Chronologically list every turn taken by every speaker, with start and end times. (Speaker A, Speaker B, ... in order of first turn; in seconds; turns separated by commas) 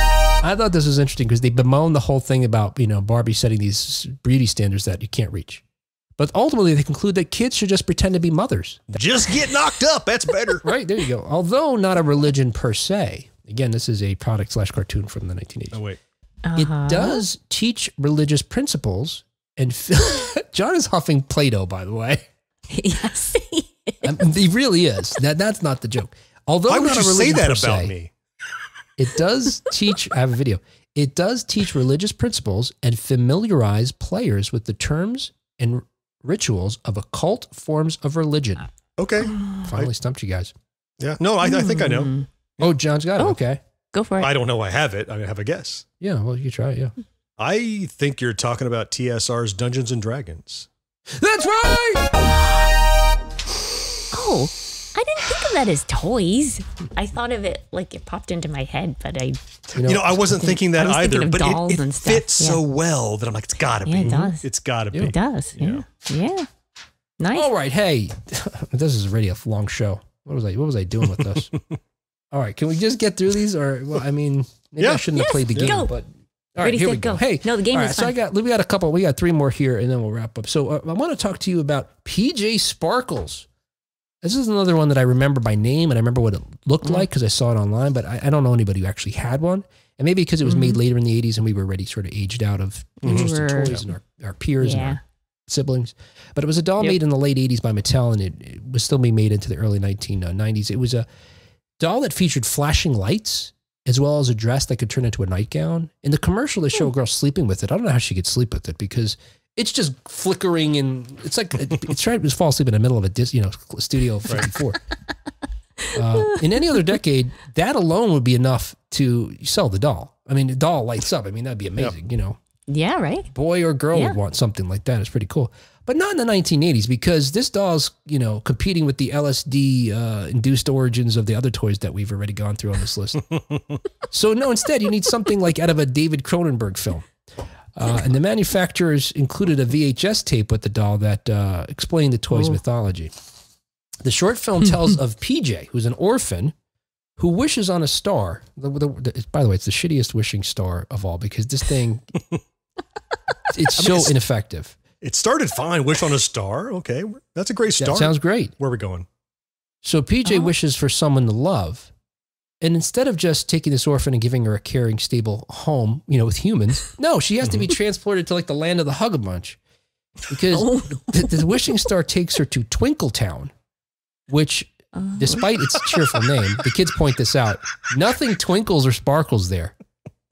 Speaker A: 0.4-5.6, Speaker A: 6.2-8.8, Speaker B: 8.9-10.6, Speaker A: 10.6-15.8, Speaker B: 15.7-16.0, Speaker C: 16.4-17.2, Speaker A: 16.6-22.3, Speaker C: 22.7-24.2, Speaker A: 24.0-27.9, Speaker B: 26.7-28.1, Speaker A: 29.0-38.7, Speaker B: 39.0-39.9, Speaker C: 39.3-39.6, Speaker A: 39.6-40.5, Speaker B: 41.0-42.6, Speaker C: 41.4-42.3, Speaker A: 42.6-43.6, Speaker C: 43.9-44.3, Speaker B: 44.2-45.8, Speaker A: 46.0-46.9, Speaker B: 47.4-50.7, Speaker A: 51.1-52.2, Speaker C: 54.1-59.4, Speaker A: 59.8-60.2, Speaker B: 59.8-65.8, Speaker C: 60.2-62.6, Speaker C: 63.8-64.4, Speaker C: 64.9-66.5, Speaker C: 67.2-67.5, Speaker A: 67.3-71.5, Speaker A: 72.3-83.5, Speaker B: 74.8-75.8, Speaker C: 75.1-75.9, Speaker C: 76.6-78.2, Speaker A: 84.2-101.1, Speaker C: 90.4-90.8, Speaker C: 93.0-93.9, Speaker C: 94.6-95.0, Speaker A: 101.8-114.8, Speaker C: 115.9-116.9, Speaker A: 115.9-122.4, Speaker C: 122.7-123.3, Speaker A: 123.3-133.2, Speaker A: 134.1-137.1, Speaker A: 137.7-143.1, Speaker C: 142.3-142.6, Speaker A: 144.0-146.6, Speaker A: 147.2-152.1, Speaker A: 153.5-154.8, Speaker B: 153.8-154.1, Speaker B: 155.0-159.1, Speaker A: 157.8-158.5, Speaker A: 159.8-161.9, Speaker A: 162.6-169.6, Speaker A: 170.3-173.5, Speaker C: 170.5-171.4, Speaker A: 174.3-179.7, Speaker C: 174.9-175.5